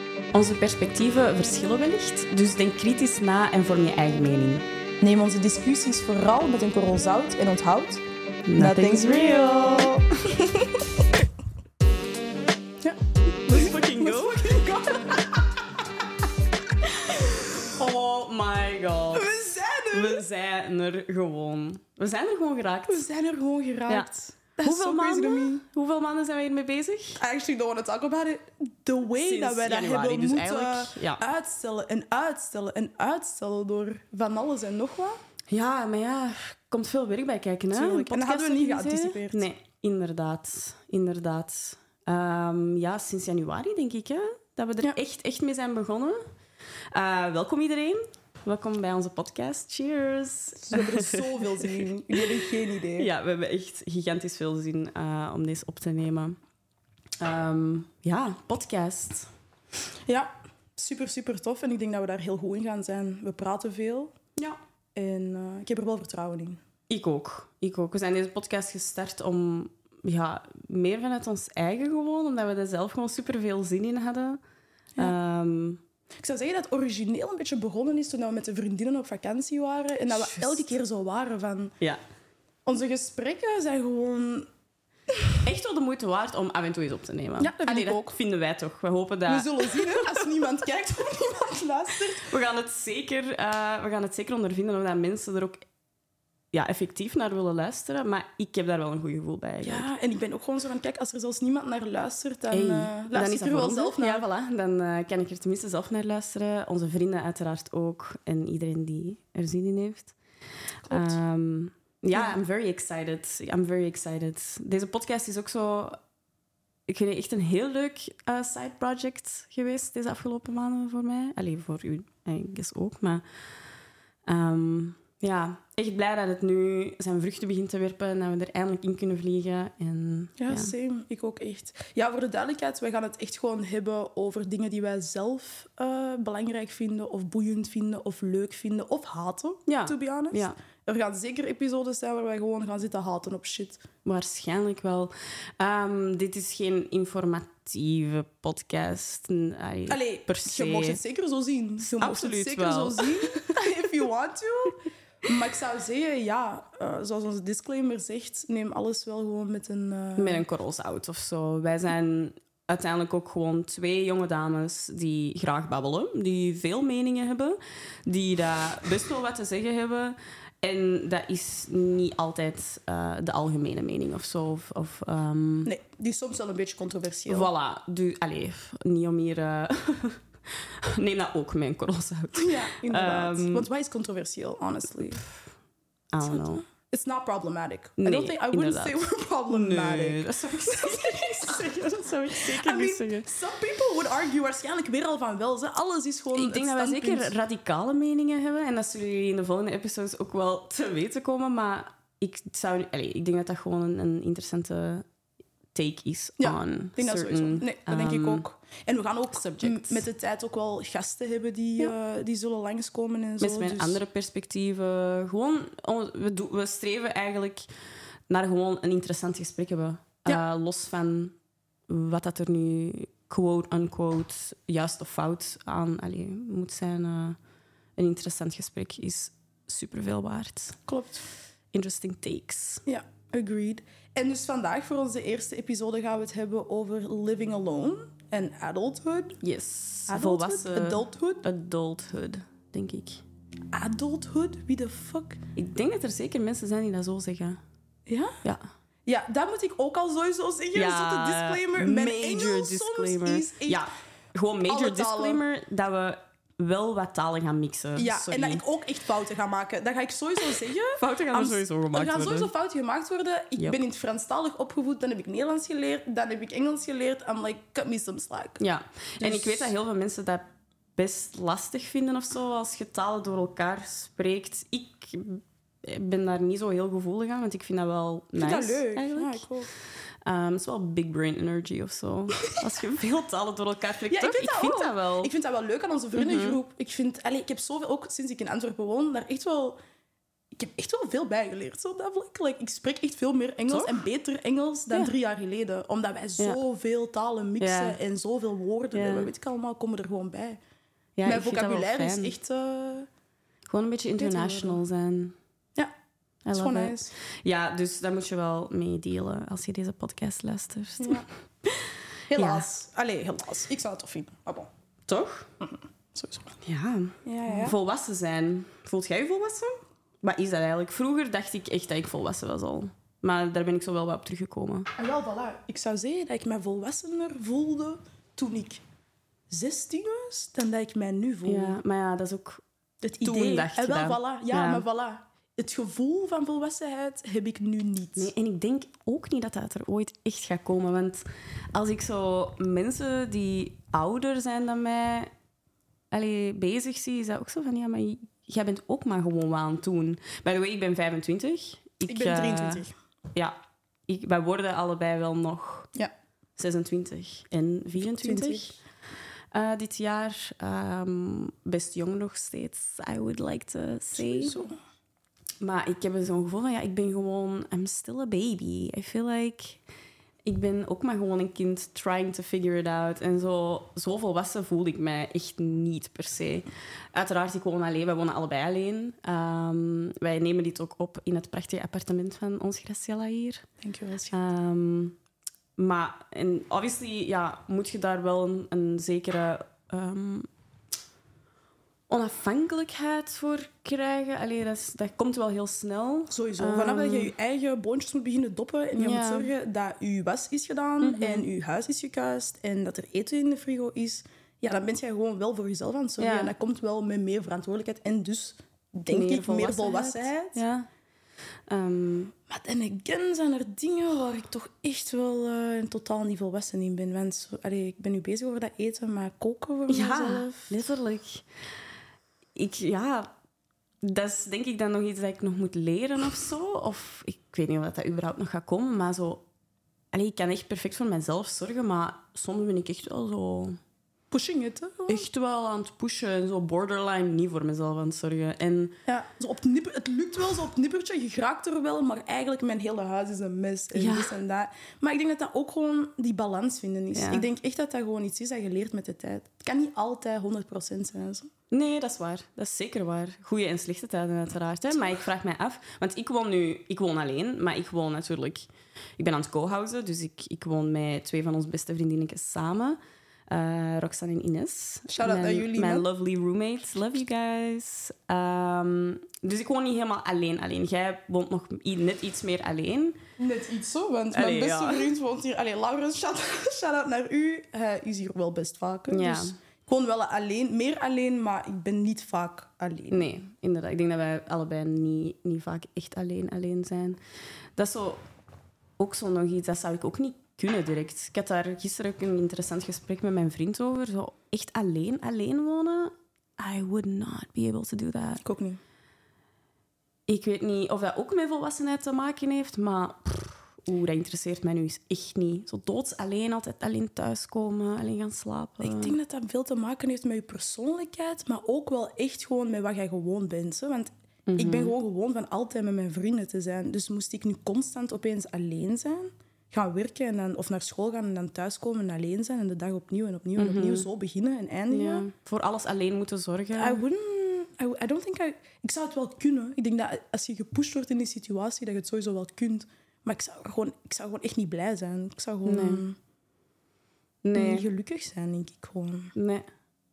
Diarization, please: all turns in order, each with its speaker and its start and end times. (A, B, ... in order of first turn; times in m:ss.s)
0:00.3-0:04.7 A
0:05.0-0:08.0 B
0:08.5-0:10.6 A
0:08.6-0:10.8 B
0:12.8-0:15.8 B
0:13.5-0:14.6 A
0:17.1-0:17.4 B
0:17.7-0:23.1 A
0:19.1-0:20.3 B
0:22.9-0:25.6 B
0:24.6-0:27.2 A
0:27.2-0:35.2 B
0:29.1-0:31.2 A
0:35.5-0:46.2 A
0:37.7-0:39.5 B
0:46.9-0:56.4 A
0:50.6-0:53.1 B
0:57.2-0:59.3 A
1:00.1-1:04.1 B
1:05.0-1:06.6 B
1:06.9-1:14.4 A
1:15.0-1:15.8 A
1:16.2-1:21.8 B
1:20.1-1:20.7 A
1:22.7-1:24.5 B
1:25.4-1:30.3 A
1:27.4-1:28.2 B
1:29.3-1:32.3 B
1:32.2-1:35.6 A
1:36.5-1:39.9 A
1:39.6-1:44.2 B
1:42.5-1:50.1 A
1:50.9-1:51.2 B
1:50.9-1:56.0 A
1:56.9-2:03.2 A
2:04.3-2:10.7 A
2:10.4-2:23.8 B
2:19.7-2:20.6 A
2:24.0-2:31.0 A
2:29.9-2:40.4 B
2:31.8-2:33.4 A
2:40.2-2:55.7 A
2:55.6-2:57.5 B
2:57.3-3:03.7 A
3:02.4-3:05.2 B
3:06.1-3:06.6 A
3:06.2-3:17.4 B
3:08.0-3:13.3 A
3:16.3-3:25.1 A
3:25.7-3:28.4 A
3:26.4-3:34.0 B
3:29.3-3:30.1 A
3:33.4-3:37.7 A
3:38.3-3:41.4 A
3:41.9-3:47.4 A
3:48.0-3:50.8 A
3:50.9-3:51.2 B
3:51.7-3:52.8 A
3:52.9-3:59.4 B
3:59.4-4:03.2 A
4:00.1-4:01.5 B
4:03.7-4:05.4 B
4:05.6-4:07.6 A
4:08.1-4:08.4 B
4:09.1-4:13.8 B
4:10.7-4:18.6 A
4:14.7-4:15.4 B
4:18.0-4:28.6 B
4:21.0-4:22.5 A
4:28.6-4:39.5 A
4:29.2-4:29.7 B
4:38.4-4:39.7 B
4:40.2-4:45.3 A
4:44.1-4:49.8 B
4:46.2-4:46.6 A
4:50.5-5:00.6 B
4:53.7-4:54.0 A
4:57.6-4:58.0 A
4:58.9-4:59.3 A
5:01.2-5:02.3 A
5:01.3-5:03.1 B
5:03.7-5:05.4 A
5:04.2-5:04.8 B
5:06.4-5:12.7 A
5:06.5-5:07.1 B
5:11.0-5:11.3 B
5:12.3-5:14.7 B
5:15.1-5:15.5 A
5:15.6-5:16.6 B
5:16.6-5:24.9 A
5:17.2-5:17.8 B
5:25.0-5:28.8 B
5:29.5-5:31.8 B
5:31.5-5:32.6 A
5:33.0-5:38.3 B
5:33.2-5:34.8 A
5:38.2-5:45.3 A
5:46.1-5:53.6 A
5:52.1-5:52.9 B
5:54.1-5:55.9 A
5:56.6-5:58.8 A
5:58.0-5:58.8 B
5:59.5-6:04.6 A
6:04.2-6:04.8 B
6:05.6-6:09.8 A
6:10.4-6:23.7 A
6:23.8-6:24.4 B
6:24.3-6:25.2 A
6:25.8-6:30.5 A
6:32.1-6:37.3 A
6:36.3-6:50.6 B
6:39.0-6:39.5 A
6:41.0-6:41.5 A
6:46.2-6:46.5 A
6:49.1-6:50.9 A
6:51.7-6:52.3 A
6:52.5-7:00.8 B
6:59.9-7:01.5 A
7:02.6-7:03.3 A
7:04.0-7:09.4 A
7:10.1-7:13.8 A
7:14.3-7:15.2 B
7:15.1-7:19.0 A
7:19.1-7:31.5 B
7:23.9-7:24.4 A
7:27.1-7:27.5 A
7:31.7-7:53.2 A
7:45.1-7:46.1 B
7:53.4-8:03.3 B
7:54.3-7:55.1 A
7:59.1-7:59.6 A
8:03.1-8:07.2 A
8:07.8-8:08.2 A
8:09.0-8:18.4 A
8:18.4-8:18.8 B
8:20.3-8:29.2 A
8:28.8-8:45.3 B
8:34.5-8:34.9 A
8:43.6-8:44.1 A
8:44.9-8:47.0 A
8:46.7-8:56.2 B
8:55.7-8:56.0 A
8:57.4-8:57.9 A
8:57.5-8:59.3 B
8:59.4-8:59.7 A